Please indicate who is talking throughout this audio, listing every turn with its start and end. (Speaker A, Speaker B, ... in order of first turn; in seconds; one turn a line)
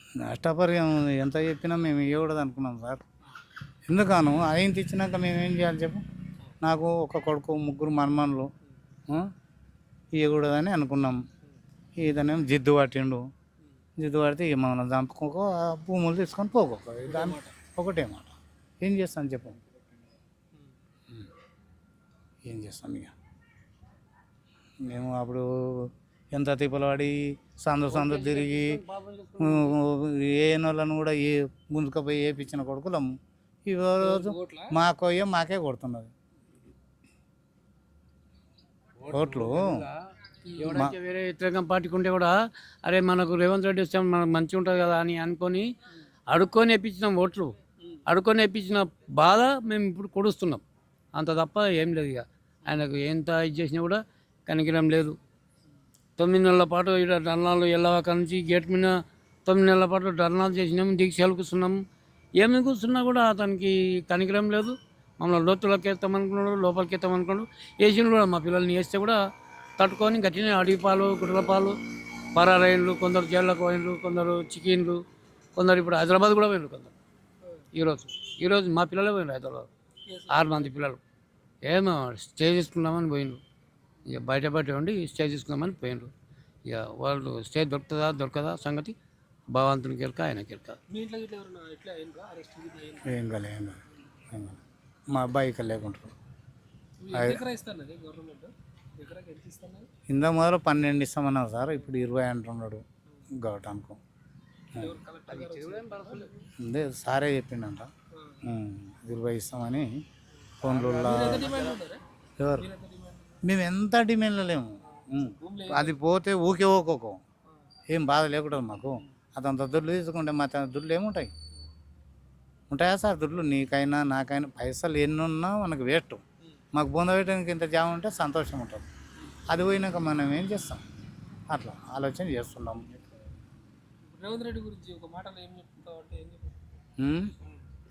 Speaker A: 0.2-3.0
Speaker A: 3.9-6.0
Speaker A: 6.6-8.5
Speaker A: 10.1-11.2
Speaker A: 12.0-13.3
Speaker A: 14.0-19.6
Speaker B: 17.1-17.5
Speaker A: 22.4-23.1
Speaker A: 24.8-28.8
Speaker C: 27.9-29.8
Speaker A: 29.4-33.1
Speaker A: 33.6-36.1
Speaker B: 34.0-34.7
Speaker C: 39.0-39.9
Speaker A: 39.1-39.9
Speaker B: 40.5-40.7
Speaker C: 40.6-45.7
Speaker A: 40.6-40.9
Speaker C: 46.3-47.5
Speaker C: 48.1-50.6
Speaker C: 51.1-55.2
Speaker C: 56.2-58.9
Speaker C: 59.5-61.8
Speaker C: 62.4-69.2
Speaker C: 69.8-71.8
Speaker C: 72.3-75.0
Speaker C: 75.5-76.9
Speaker C: 77.7-79.7
Speaker B: 80.1-80.7
Speaker C: 80.3-81.0
Speaker C: 81.7-83.4
Speaker C: 84.1-86.1
Speaker C: 86.7-88.9
Speaker C: 89.5-90.8
Speaker B: 90.9-93.2
Speaker A: 93.0-96.1
Speaker B: 97.0-99.9
Speaker A: 97.1-97.4
Speaker A: 100.1-104.0
Speaker B: 104.8-106.3
Speaker C: 105.3-106.3
Speaker A: 106.6-107.9
Speaker B: 108.1-108.4
Speaker A: 108.4-109.9
Speaker B: 110.3-112.0
Speaker A: 110.6-111.6
Speaker A: 112.4-112.7
Speaker B: 112.6-113.4
Speaker A: 113.4-117.2
Speaker B: 114.8-116.0
Speaker A: 117.9-121.3
Speaker A: 122.7-126.2
Speaker A: 126.7-128.9
Speaker A: 129.5-130.8
Speaker A: 131.5-132.9
Speaker B: 134.1-136.6
Speaker A: 137.0-137.3